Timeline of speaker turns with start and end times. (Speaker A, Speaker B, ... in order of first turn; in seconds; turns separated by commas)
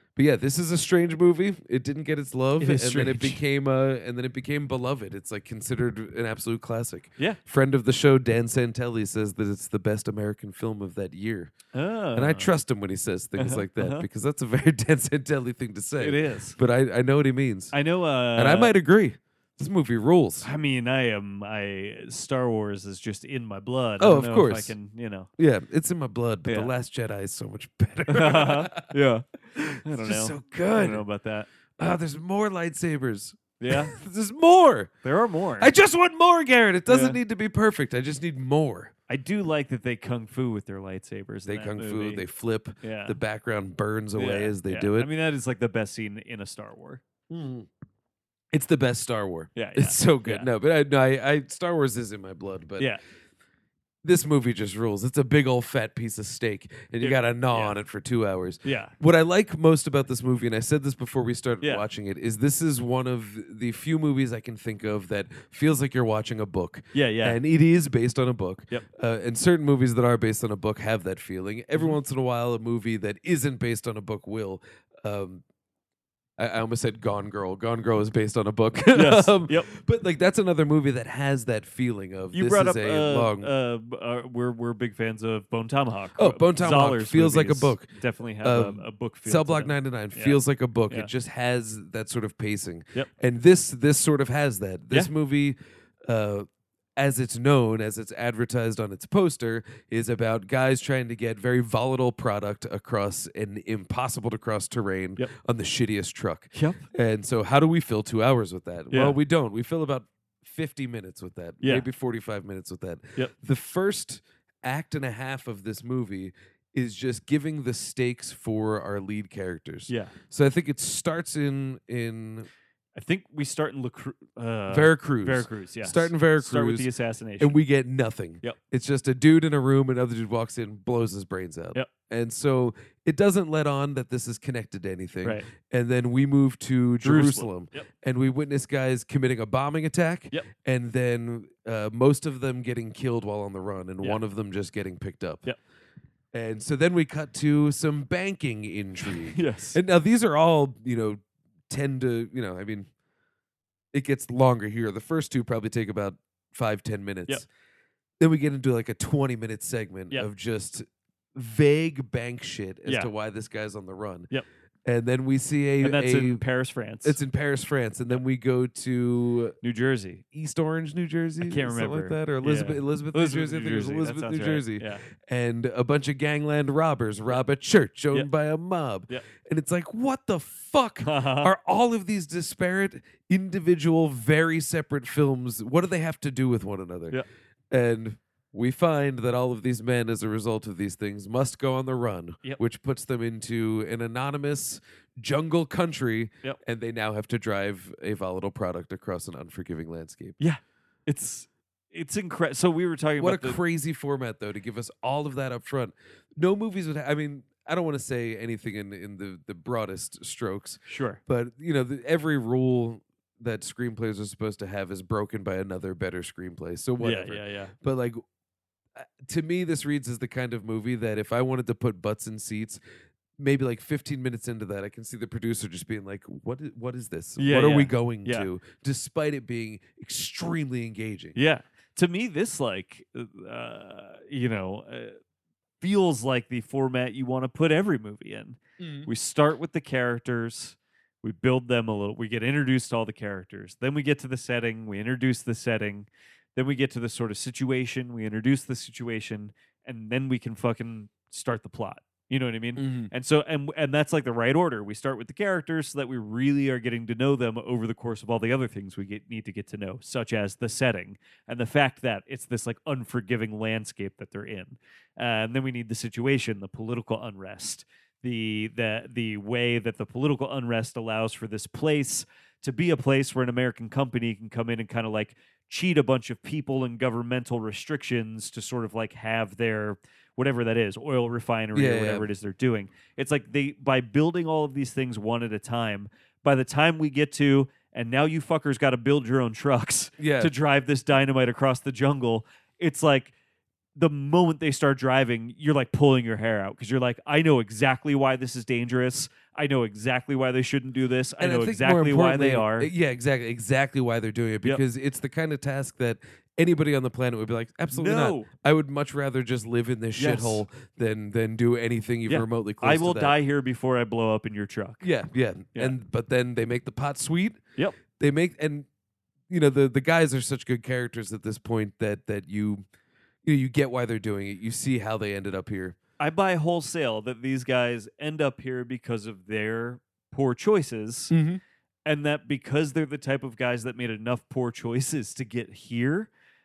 Speaker A: 0.1-11.5, Speaker B: 2.6-3.4, Speaker B: 11.7-12.5, Speaker A: 12.1-17.7, Speaker B: 13.4-14.1, Speaker B: 16.0-16.6, Speaker B: 17.7-18.7, Speaker A: 18.3-20.5, Speaker B: 20.4-25.3, Speaker A: 24.0-24.7, Speaker A: 25.4-28.9, Speaker B: 26.4-26.7, Speaker B: 28.1-29.3, Speaker A: 29.5-31.0, Speaker B: 29.8-31.5, Speaker A: 31.8-34.9, Speaker B: 33.6-34.0, Speaker B: 35.0-35.7, Speaker A: 35.6-38.9, Speaker B: 36.9-37.2, Speaker B: 39.1-42.2, Speaker A: 41.5-45.1, Speaker B: 42.8-43.2, Speaker B: 44.1-47.0, Speaker A: 47.3-47.7, Speaker A: 48.5-52.9, Speaker B: 49.5-50.5, Speaker A: 54.0-75.4, Speaker B: 57.0-57.8, Speaker B: 58.6-58.9, Speaker B: 66.9-67.4, Speaker A: 76.4-83.5, Speaker B: 78.9-79.7, Speaker B: 82.3-91.1, Speaker A: 86.2-87.9, Speaker A: 88.4-122.5, Speaker B: 106.5-106.8, Speaker B: 108.9-109.2, Speaker B: 119.9-120.1, Speaker B: 122.9-127.5, Speaker A: 124.7-126.9, Speaker A: 127.4-145.4, Speaker B: 137.0-137.8, Speaker A: 146.3-152.9, Speaker B: 149.1-149.8, Speaker A: 153.9-157.5, Speaker A: 158.2-164.3, Speaker A: 164.8-166.4, Speaker B: 165.8-167.2, Speaker A: 167.0-169.6, Speaker B: 169.6-170.2, Speaker A: 170.3-187.2, Speaker B: 171.4-175.0, Speaker B: 181.0-181.5, Speaker A: 187.7-200.4, Speaker B: 200.4-203.6, Speaker A: 203.2-218.2, Speaker B: 210.9-211.2, Speaker B: 217.0-217.7, Speaker A: 219.0-222.8, Speaker A: 223.4-231.4, Speaker B: 227.4-228.5, Speaker B: 231.3-235.2, Speaker B: 235.8-293.3, Speaker A: 238.8-239.1, Speaker A: 252.8-253.1, Speaker A: 281.7-282.3, Speaker A: 290.2-290.5, Speaker B: 293.9-302.9, Speaker A: 301.4-313.3, Speaker B: 307.9-308.5, Speaker B: 310.2-310.6, Speaker B: 312.3-315.1, Speaker A: 315.0-317.6, Speaker A: 318.1-318.9, Speaker A: 319.5-322.8, Speaker A: 323.4-326.0, Speaker B: 326.2-331.3, Speaker A: 331.3-331.6, Speaker B: 332.0-336.3